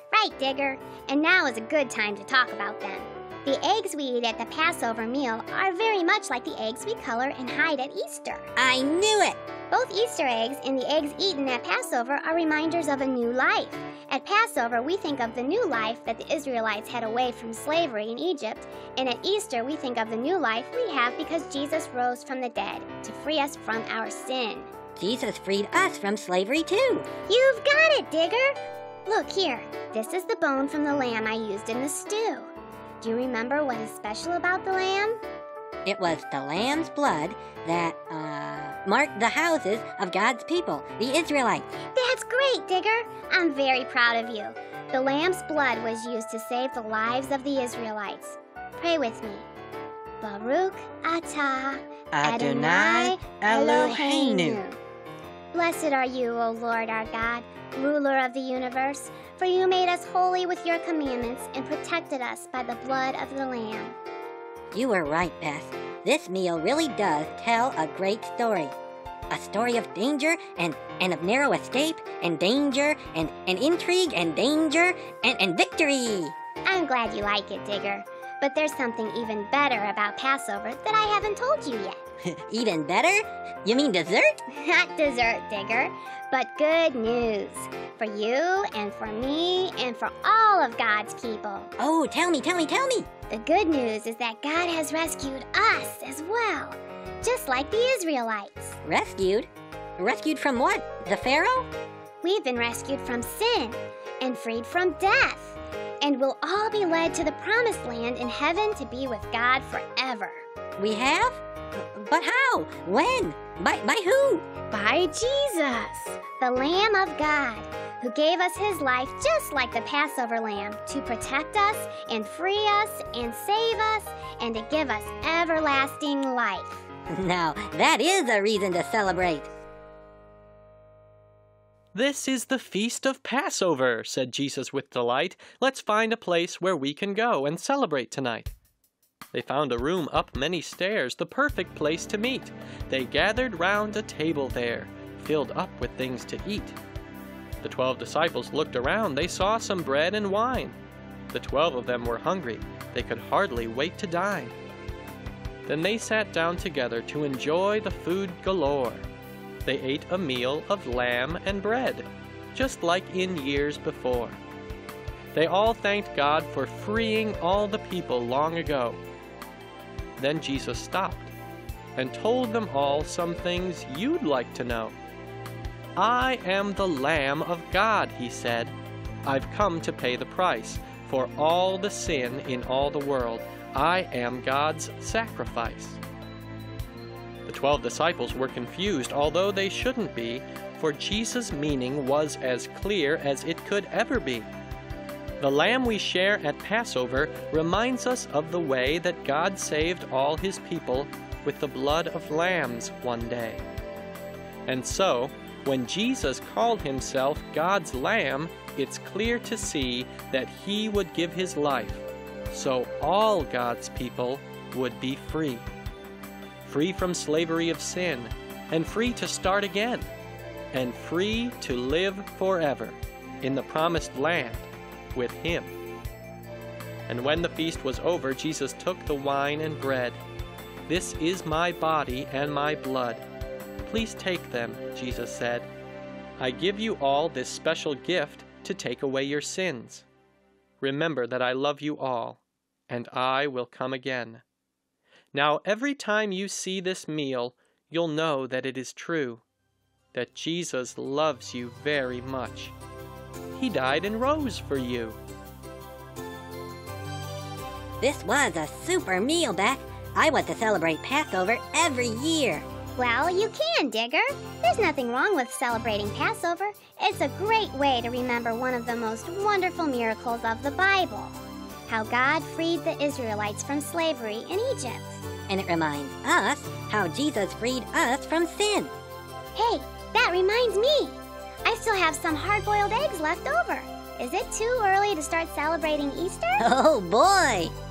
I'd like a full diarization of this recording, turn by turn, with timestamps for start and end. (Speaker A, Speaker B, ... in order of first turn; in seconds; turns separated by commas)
Speaker A: 0.1-8.5, Speaker B: 8.6-9.4, Speaker A: 9.7-24.7, Speaker B: 24.9-27.1, Speaker A: 27.3-28.6, Speaker A: 29.1-35.2, Speaker B: 35.8-41.6, Speaker A: 41.9-49.5, Speaker A: 50.2-54.8, Speaker B: 52.1-54.6, Speaker A: 55.5-64.0, Speaker B: 64.7-68.7, Speaker B: 69.3-76.3, Speaker A: 76.6-82.0, Speaker B: 82.2-84.4, Speaker A: 84.5-91.7, Speaker B: 91.8-93.1, Speaker A: 93.3-98.8, Speaker B: 98.8-101.7, Speaker A: 102.2-110.4, Speaker B: 110.8-114.5, Speaker A: 114.7-126.8, Speaker B: 127.1-129.5, Speaker C: 131.9-138.5, Speaker C: 139.3-146.8, Speaker C: 147.6-150.8, Speaker C: 151.3-154.6, Speaker C: 155.6-159.1, Speaker C: 159.6-164.4, Speaker C: 165.3-169.0, Speaker C: 170.2-171.3, Speaker C: 171.9-174.9, Speaker C: 175.9-178.7, Speaker C: 179.2-186.0, Speaker C: 187.4-194.5, Speaker C: 195.4-203.6, Speaker C: 204.7-215.6, Speaker C: 216.6-220.1, Speaker C: 220.7-225.7, Speaker C: 227.1-230.2, Speaker C: 230.9-233.2, Speaker C: 233.8-235.7, Speaker C: 236.4-240.1, Speaker C: 240.8-244.4, Speaker C: 245.3-249.4, Speaker C: 250.1-252.7, Speaker C: 253.5-255.2, Speaker B: 258.0-262.6, Speaker A: 263.0-275.2, Speaker B: 275.5-278.9, Speaker A: 279.5-286.6, Speaker B: 286.6-287.7